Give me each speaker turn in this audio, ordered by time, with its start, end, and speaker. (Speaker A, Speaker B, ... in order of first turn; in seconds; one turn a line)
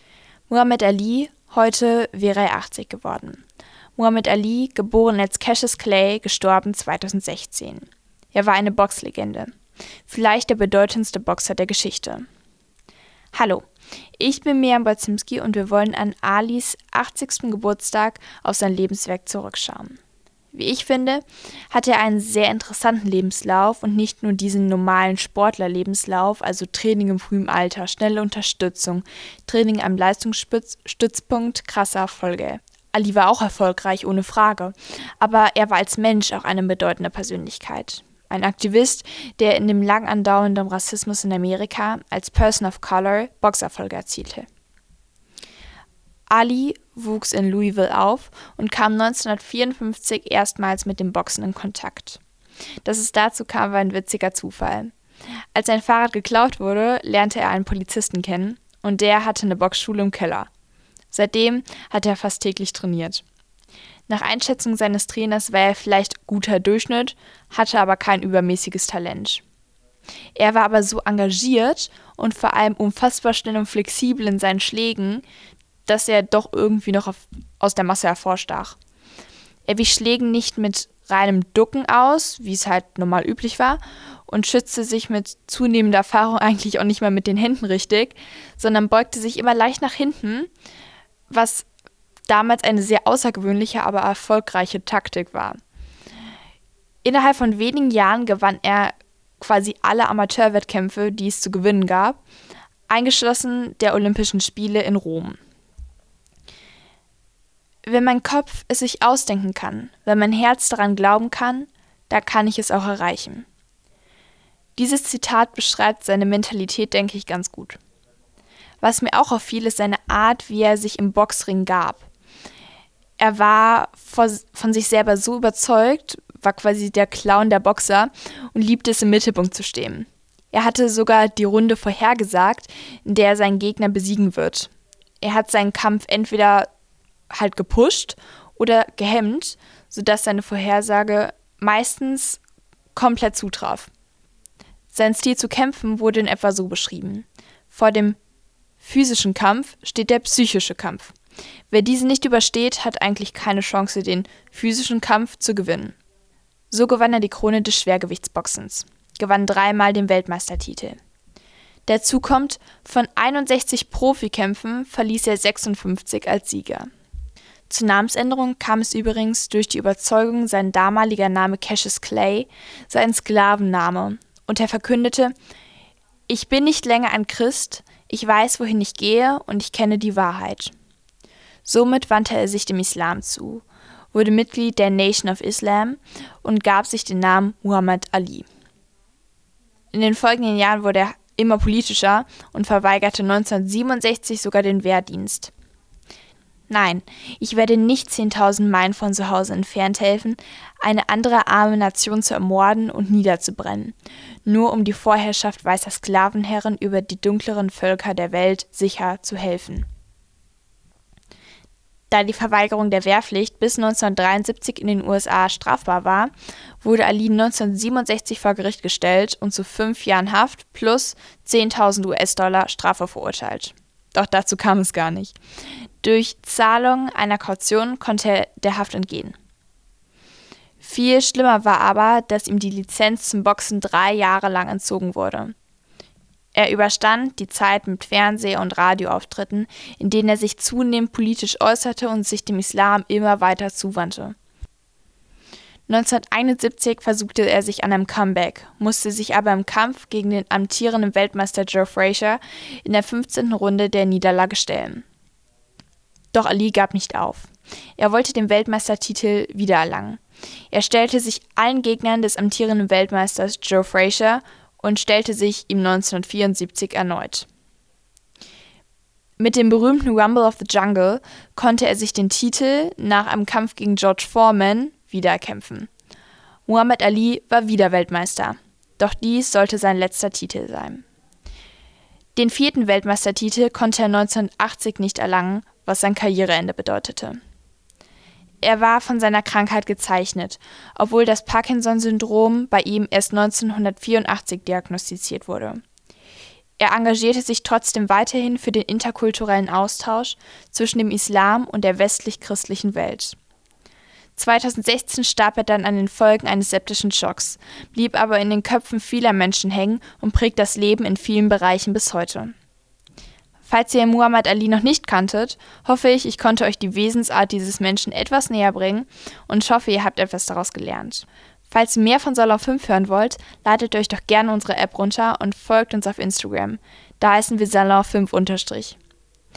Speaker A: 0.5-3.4
Speaker A: 4.0-9.5
Speaker A: 10.1-12.3
Speaker A: 13.3-13.7
Speaker A: 14.2-20.0
Speaker A: 20.5-44.5
Speaker A: 46.3-52.2
Speaker A: 52.9-54.9
Speaker A: 55.5-60.5
Speaker A: 61.1-63.2
Speaker A: 64.1-69.4
Speaker A: 70.4-75.2
Speaker A: 75.9-78.8
Speaker A: 79.7-90.5
Speaker A: 91.3-91.7
Speaker A: 92.3-95.6
Speaker A: 97.0-102.2
Speaker A: 102.9-105.4
Speaker A: 107.9-113.5
Speaker A: 114.8-117.8
Speaker A: 118.8-122.1
Speaker A: 123.2-134.7
Speaker A: 135.2-136.7
Speaker A: 137.3-142.4
Speaker A: 142.9-143.9
Speaker A: 144.9-148.2
Speaker A: 148.8-151.2
Speaker A: 151.7-156.0
Speaker A: 156.7-161.0
Speaker A: 161.9-166.9
Speaker A: 167.7-175.3
Speaker A: 176.3-180.7
Speaker A: 181.7-188.5
Speaker A: 189.9-195.5
Speaker A: 196.7-209.9
Speaker A: 212.1-225.4
Speaker A: 226.0-229.4
Speaker A: 230.8-235.6
Speaker A: 236.6-244.4
Speaker A: 245.9-255.1
Speaker A: 256.3-267.5
Speaker A: 269.4-275.9
Speaker A: 276.7-281.1
Speaker A: 282.4-287.4
Speaker A: 288.6-295.8
Speaker A: 296.8-303.4
Speaker A: 304.4-312.5
Speaker A: 313.6-329.0